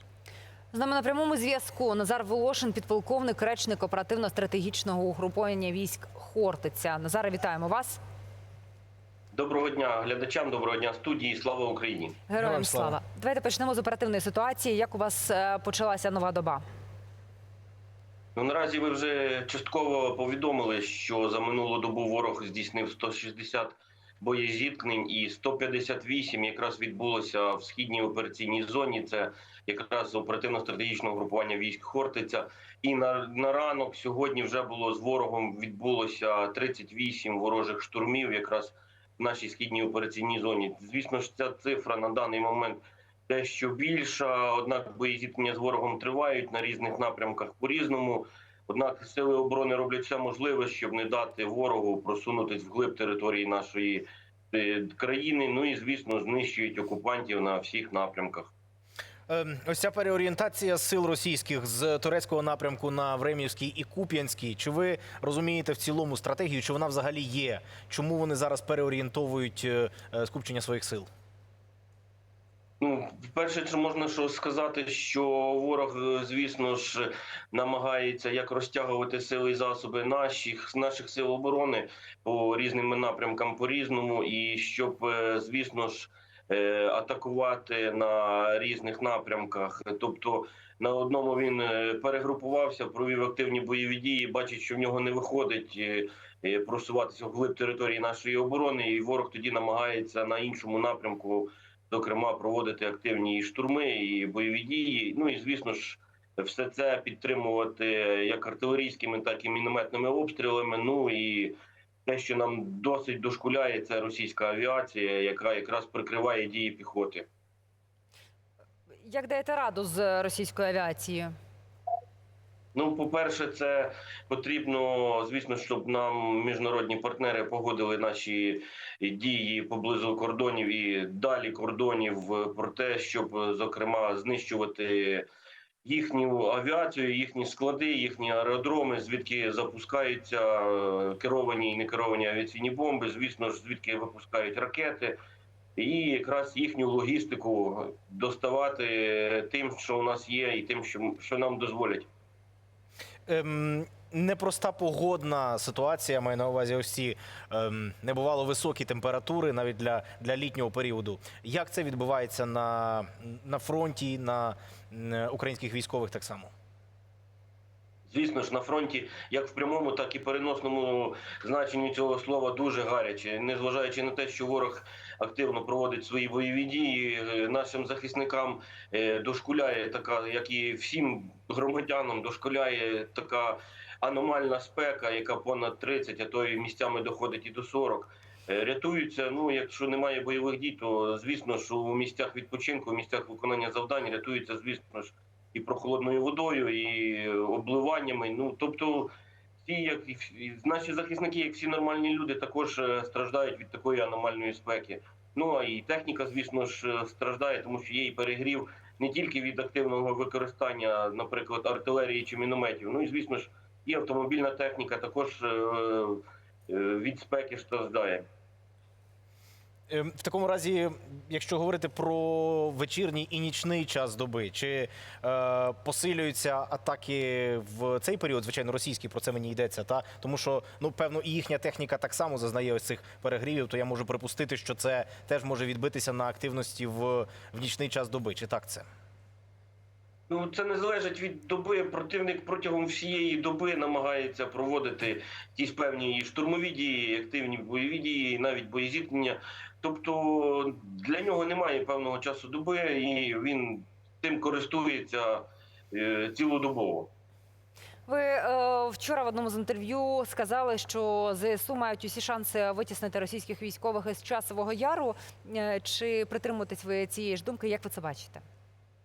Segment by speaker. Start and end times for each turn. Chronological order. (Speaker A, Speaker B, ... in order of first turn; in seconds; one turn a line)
Speaker A: 0.7-8.0
Speaker B: 9.3-12.2
Speaker A: 12.3-16.6
Speaker C: 12.4-13.0
Speaker B: 18.3-58.5
Speaker C: 59.3-71.1
Speaker B: 72.8-111.5
Speaker B: 112.0-117.3
Speaker A: 119.0-121.3
Speaker B: 122.7-135.3
Speaker B: 135.8-145.2
Speaker B: 145.8-152.1
Speaker C: 153.3-166.5
Speaker B: 168.1-199.1
Speaker B: 199.6-218.2
Speaker C: 219.9-238.8
Speaker B: 240.3-257.1
Speaker A: 258.1-268.4